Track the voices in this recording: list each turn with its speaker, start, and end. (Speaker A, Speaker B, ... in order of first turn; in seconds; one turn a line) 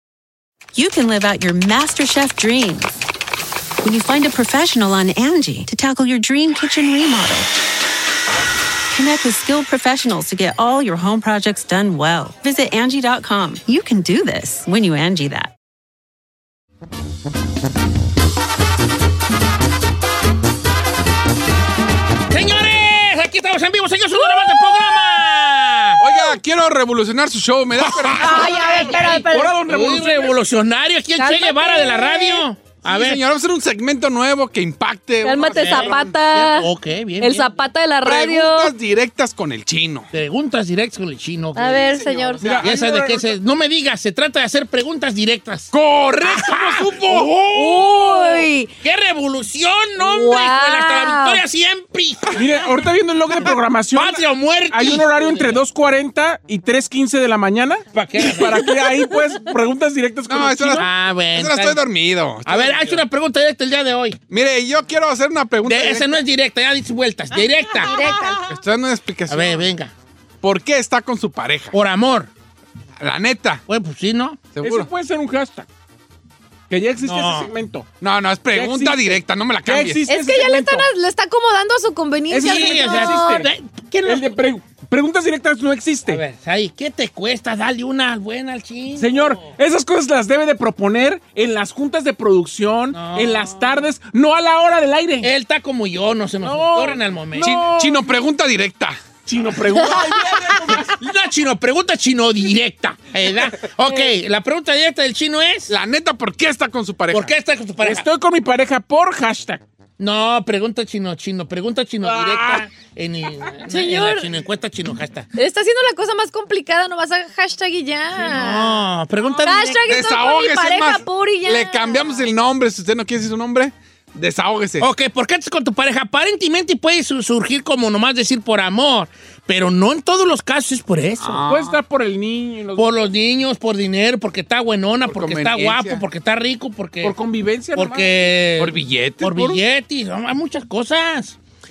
Speaker A: 0.7-3.0
Speaker A: 3.8-7.5
Speaker A: 8.9-15.5
Speaker B: 22.3-26.0
Speaker C: 26.0-28.5
Speaker B: 27.8-33.2
Speaker D: 28.3-29.6
Speaker E: 29.0-30.3
Speaker D: 31.2-32.4
Speaker C: 32.8-36.1
Speaker D: 35.2-36.7
Speaker B: 35.5-37.5
Speaker D: 37.2-38.7
Speaker C: 38.0-40.1
Speaker B: 40.1-42.0
Speaker D: 41.5-42.5
Speaker C: 42.0-42.7
Speaker E: 42.4-43.3
Speaker B: 42.6-52.7
Speaker C: 45.7-47.3
Speaker D: 47.5-48.7
Speaker D: 50.0-51.4
Speaker E: 52.4-60.8
Speaker B: 53.9-55.6
Speaker B: 57.9-58.7
Speaker C: 60.3-63.0
Speaker B: 60.7-61.8
Speaker B: 62.4-64.2
Speaker C: 64.3-66.1
Speaker B: 65.6-68.0
Speaker D: 67.8-68.4
Speaker C: 68.5-69.7
Speaker B: 69.3-69.9
Speaker C: 70.4-71.7
Speaker B: 71.7-72.3
Speaker C: 73.0-73.6
Speaker B: 73.7-74.4
Speaker C: 74.5-74.9
Speaker E: 74.6-75.7
Speaker E: 76.7-77.9
Speaker B: 77.0-77.5
Speaker C: 78.0-80.0
Speaker E: 78.5-80.9
Speaker D: 80.0-83.4
Speaker E: 82.3-83.5
Speaker B: 82.4-84.3
Speaker E: 84.0-86.2
Speaker B: 86.1-89.5
Speaker E: 89.0-95.3
Speaker B: 92.9-93.7
Speaker B: 95.2-97.6
Speaker E: 96.4-98.0
Speaker C: 97.4-99.0
Speaker E: 99.2-100.8
Speaker B: 100.8-105.7
Speaker C: 105.7-107.3
Speaker B: 107.1-108.1
Speaker E: 107.8-109.6
Speaker B: 110.0-115.3
Speaker E: 112.0-112.6
Speaker D: 113.7-114.3
Speaker D: 115.3-118.8
Speaker B: 118.2-119.9
Speaker D: 119.4-122.2
Speaker C: 119.9-124.8
Speaker B: 124.8-131.5
Speaker C: 131.2-131.8
Speaker E: 131.5-132.9
Speaker B: 132.8-137.2
Speaker C: 135.1-136.0
Speaker E: 137.0-138.3
Speaker B: 137.7-141.4
Speaker C: 138.6-139.6